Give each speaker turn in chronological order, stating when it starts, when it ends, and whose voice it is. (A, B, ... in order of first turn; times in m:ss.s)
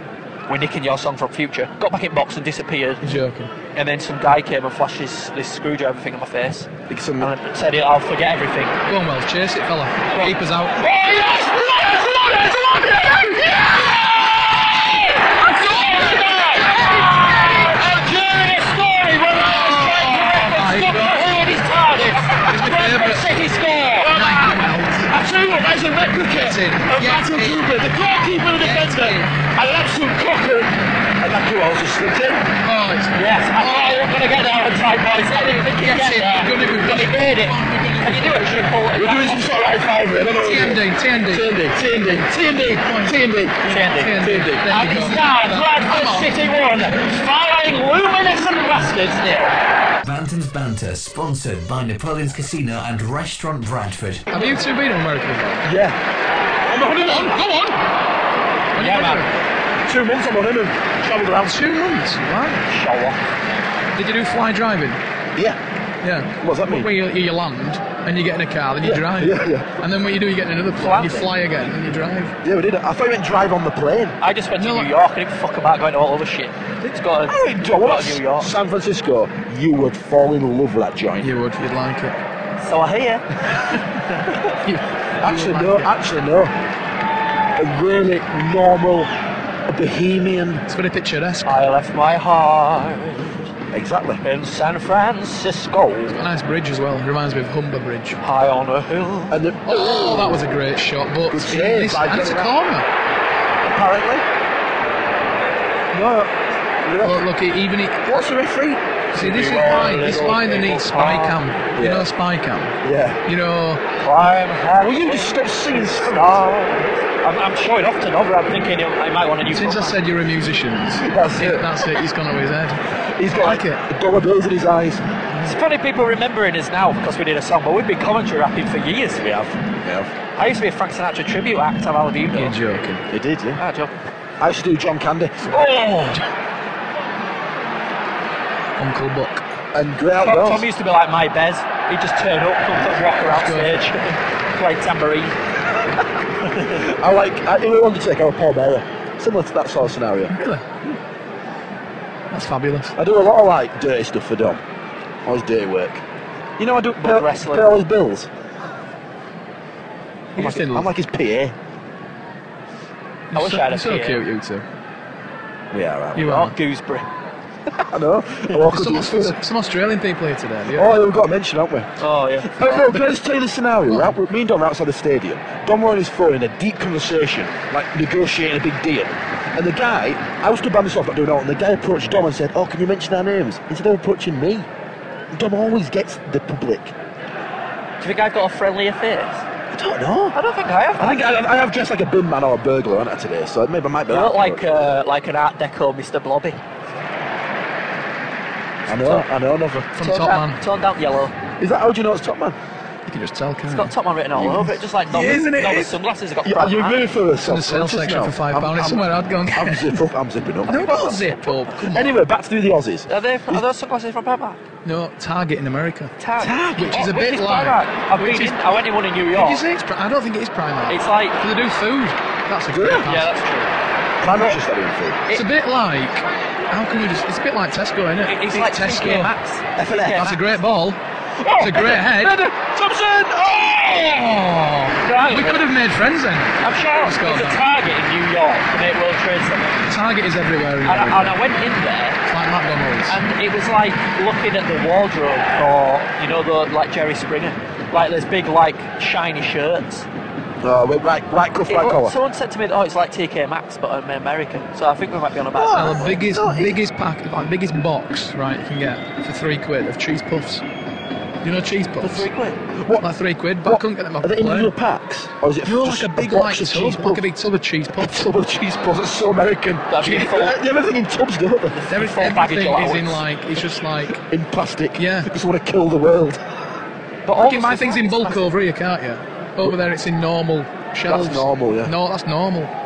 0:00.5-0:03.0 A
0:03.0-0:03.5 B
0:03.7-0:08.8 A
0:06.9-0:07.3 C
0:08.9-0:10.8 B
0:10.8-0:13.9 C
0:10.9-0:24.6 A
0:14.4-0:21.0 C
0:15.5-0:17.3 B
0:19.5-0:21.1 B
0:22.2-0:22.7 C
0:22.4-0:23.2 B
0:24.1-0:25.1 B
0:24.2-0:32.5 C
0:26.4-0:27.6 B
0:28.6-0:29.3 A
0:32.6-0:34.0 B
0:33.1-0:39.4 A
0:35.7-0:38.5 B
0:38.9-0:44.7 C
0:40.4-0:41.5 B
0:42.1-0:46.3 B
0:43.6-0:49.5 A
0:50.0-0:54.3 D
0:54.3-0:55.6 B
0:55.6-0:56.0 C
0:56.6-0:57.4 C
0:57.0-0:57.8 B
0:58.7-0:59.4 B
0:58.8-0:59.3 A
0:59.8-1:01.7 C
1:01.4-1:02.6 B
1:02.6-1:03.2 A
1:04.0-1:05.0 B
1:06.0-1:12.3 B
1:06.4-1:06.9 C
1:08.8-1:09.7 C
1:10.8-1:11.3 A
1:12.4-1:14.2 C
1:14.2-1:18.5 A
1:14.6-1:14.9 B
1:17.3-1:21.3 C
1:21.2-1:22.2 B
1:22.6-1:24.5 A
1:24.6-1:25.9 B
1:25.2-1:26.5 C
1:27.6-1:29.1 C
1:29.7-1:30.6 C
1:30.7-1:31.6 B
1:31.4-1:33.4 A
1:33.7-1:34.2 C
1:34.2-1:36.2 A
1:36.1-1:38.2 B
1:38.2-1:39.4 A
1:39.3-1:40.4 C
1:39.6-1:42.8 B
1:41.3-1:42.5 C
1:43.6-1:44.2 C
1:45.9-1:47.2 C
1:47.0-1:48.1 B
1:48.0-1:48.8 C
1:49.1-1:53.8 B
1:49.1-1:51.4 A
1:51.8-1:52.1 C
1:52.8-1:53.2 C
1:54.0-2:00.0 A
1:54.8-1:56.8 C
1:59.5-2:02.8 B
2:01.0-2:01.9 C
2:03.1-2:05.0 C
2:03.4-2:03.8 B
2:05.4-2:09.4 A
2:09.2-2:10.1 C
2:10.4-2:12.6 A
2:12.3-2:13.1 B
2:13.1-2:13.6 C
2:13.6-2:13.9 A
2:14.4-2:16.2 C
2:18.8-2:19.4 B
2:19.7-2:20.7 C
2:20.2-2:25.3 A
2:23.3-2:23.8 B
2:26.4-2:26.8 A
2:26.6-2:30.3 C
2:30.3-2:30.6 B
2:32.3-2:32.9 B
2:33.0-2:34.6 C
2:35.2-2:36.0 C
2:36.6-2:38.3 C
2:37.0-2:37.7 A
2:40.4-2:40.9 B
2:40.4-2:41.6 C
2:43.3-2:44.6 B
2:43.3-2:44.2 A
2:45.7-2:46.3 C
2:46.2-2:46.5 B
2:46.2-2:47.0 A
2:47.9-2:49.4 C
2:48.7-2:50.9 B
2:50.7-2:51.9 C
2:52.0-2:52.9 A
2:52.5-3:04.7 C
2:53.9-2:54.1 B
3:05.3-3:06.9 C
3:08.0-3:09.4 A
3:09.7-3:10.4 C
3:10.3-3:11.2 A
3:11.0-3:14.6 C
3:14.1-3:16.6 A
3:18.9-3:19.9 C
3:18.9-3:19.2 A
3:19.9-3:20.6 B
3:20.0-3:21.3 A
3:21.6-3:22.6 C
3:23.1-3:23.9 B
3:23.7-3:27.0 A
3:24.3-3:24.8 C
3:25.1-3:25.9 B
3:26.4-3:33.6 C
3:27.4-3:30.0 B
3:30.7-3:32.1 B
3:33.1-3:34.6 A
3:34.8-3:36.1 B
3:36.2-3:39.6 A
3:36.4-3:37.1 C
3:36.8-3:38.6 B
3:39.3-3:43.3 B
3:40.9-3:41.4 A
3:42.7-3:43.1 C
3:43.0-3:43.7 A
3:44.2-3:45.2 C
3:45.3-3:49.3 B
3:48.2-3:50.5 A
3:49.8-3:50.3 C
3:50.2-3:51.0 B
3:51.4-3:54.6 C
3:51.6-3:52.4 B
3:54.5-3:57.6 B
3:55.0-3:55.7 A
3:56.6-3:59.8 A
3:59.9-4:01.4 B
4:00.8-4:02.2 A
4:02.3-4:03.2 B
4:03.1-4:10.1 A
4:10.6-4:12.1 C
4:11.7-4:16.2 A
4:15.5-4:16.8 C
4:15.7-4:20.6 B
4:21.4-4:22.3 B
4:22.0-4:22.6 A
4:22.7-4:23.0 C
4:23.0-4:24.7 B
4:23.6-4:27.2 C
4:25.6-4:28.3 B
4:28.0-4:31.8 C
4:29.9-4:30.6 A
4:31.7-4:33.2 A
4:31.9-4:34.2 B
4:34.1-4:36.5 C
4:35.0-4:35.3 B
4:37.2-4:38.5 A
4:37.3-4:42.7 B
4:41.1-4:41.9 C